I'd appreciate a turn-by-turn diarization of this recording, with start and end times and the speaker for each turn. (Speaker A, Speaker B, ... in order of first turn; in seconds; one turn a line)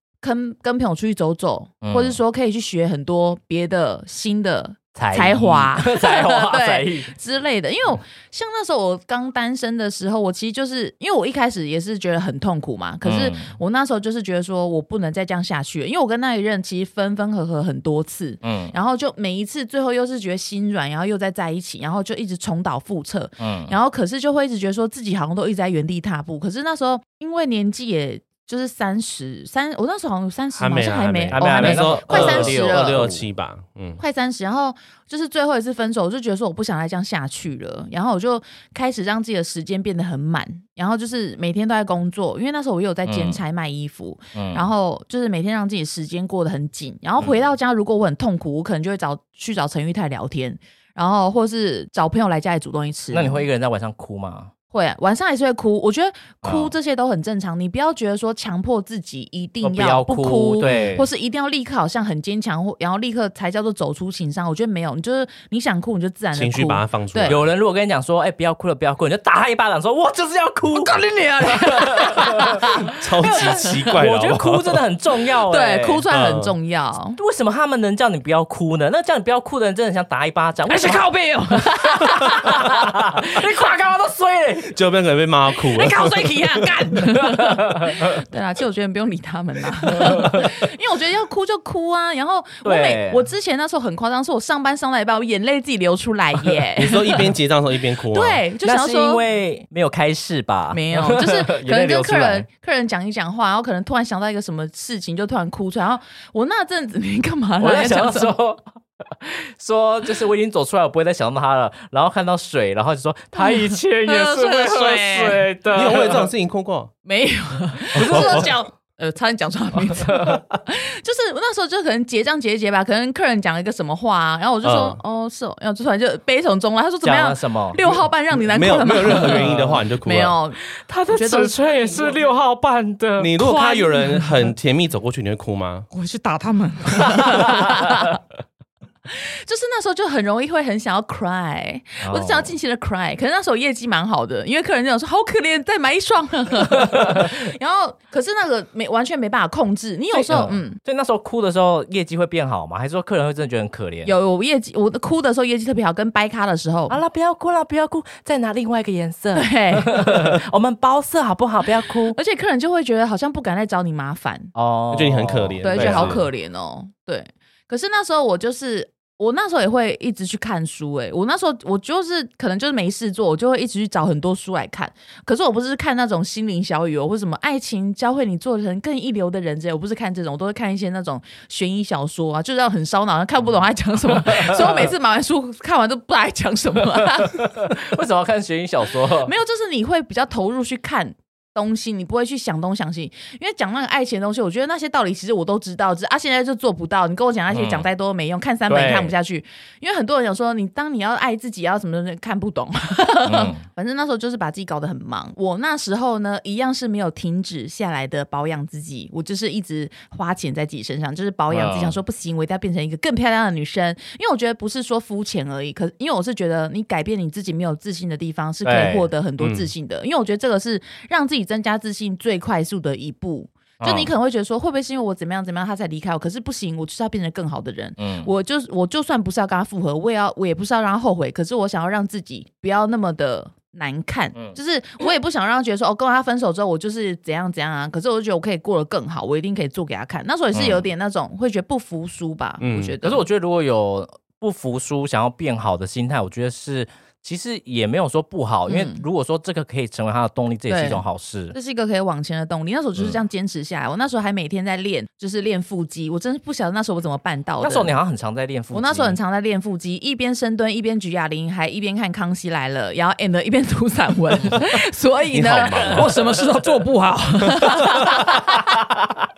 Speaker A: 0.2-33.0
Speaker B: 1.8-2.2
Speaker B: 4.9-7.1
Speaker B: 13.0-13.6
Speaker B: 18.4-18.7
Speaker B: 23.4-23.7
Speaker C: 30.6-34.0
Speaker B: 31.3-33.2
Speaker A: 34.0-53.4
Speaker B: 43.0-43.4
Speaker B: 44.3-44.7
Speaker B: 53.1-54.5
Speaker A: 54.7-67.4
Speaker B: 56.4-56.7
Speaker B: 59.6-61.1
Speaker C: 66.3-67.5
Speaker B: 67.2-76.0
Speaker A: 70.7-72.7
Speaker C: 72.9-74.8
Speaker A: 73.3-73.5
Speaker A: 75.5-77.2
Speaker C: 76.1-76.5
Speaker B: 77.2-81.0
Speaker A: 80.7-83.7
Speaker B: 81.6-84.7
Speaker C: 84.7-86.3
Speaker A: 85.8-97.2
Speaker B: 85.9-88.0
Speaker B: 90.0-90.5
Speaker B: 92.6-93.2
Speaker C: 96.8-98.4
Speaker A: 98.1-99.2
Speaker B: 98.6-102.5
Speaker A: 100.7-108.3
Speaker B: 107.6-116.3
Speaker A: 113.3-115.5
Speaker C: 115.7-116.9
Speaker A: 117.0-130.6
Speaker B: 117.9-118.5
Speaker C: 118.0-118.4
Speaker B: 119.9-120.3
Speaker C: 124.6-125.0
Speaker B: 127.0-127.8
Speaker C: 127.8-130.3
Speaker B: 129.1-129.7
Speaker B: 130.8-133.3
Speaker A: 131.1-132.3
Speaker C: 133.2-135.9
Speaker A: 133.4-134.3
Speaker A: 135.9-138.2
Speaker B: 137.0-137.7
Speaker A: 139.1-150.8
Speaker B: 142.0-142.5
Speaker B: 146.9-147.2
Speaker B: 150.1-154.1
Speaker A: 154.0-157.0
Speaker B: 156.9-162.1
Speaker A: 159.3-160.3
Speaker A: 162.1-164.5
Speaker B: 164.5-166.2
Speaker C: 164.9-166.2
Speaker A: 165.6-187.7
Speaker B: 184.2-184.8
Speaker B: 187.3-189.3
Speaker A: 189.2-243.2
Speaker B: 197.5-197.9
Speaker B: 198.7-199.1
Speaker B: 203.2-203.6
Speaker B: 211.5-211.9
Speaker B: 218.6-219.1
Speaker C: 219.4-219.7
Speaker B: 223.8-224.1
Speaker B: 228.0-228.3
Speaker B: 240.5-240.9
Speaker C: 242.6-242.9
Speaker B: 243.0-251.5
Speaker A: 248.7-249.0
Speaker A: 250.7-257.9
Speaker B: 257.6-259.2
Speaker A: 258.7-268.9
Speaker C: 265.3-266.1
Speaker B: 265.6-266.2
Speaker B: 267.7-269.0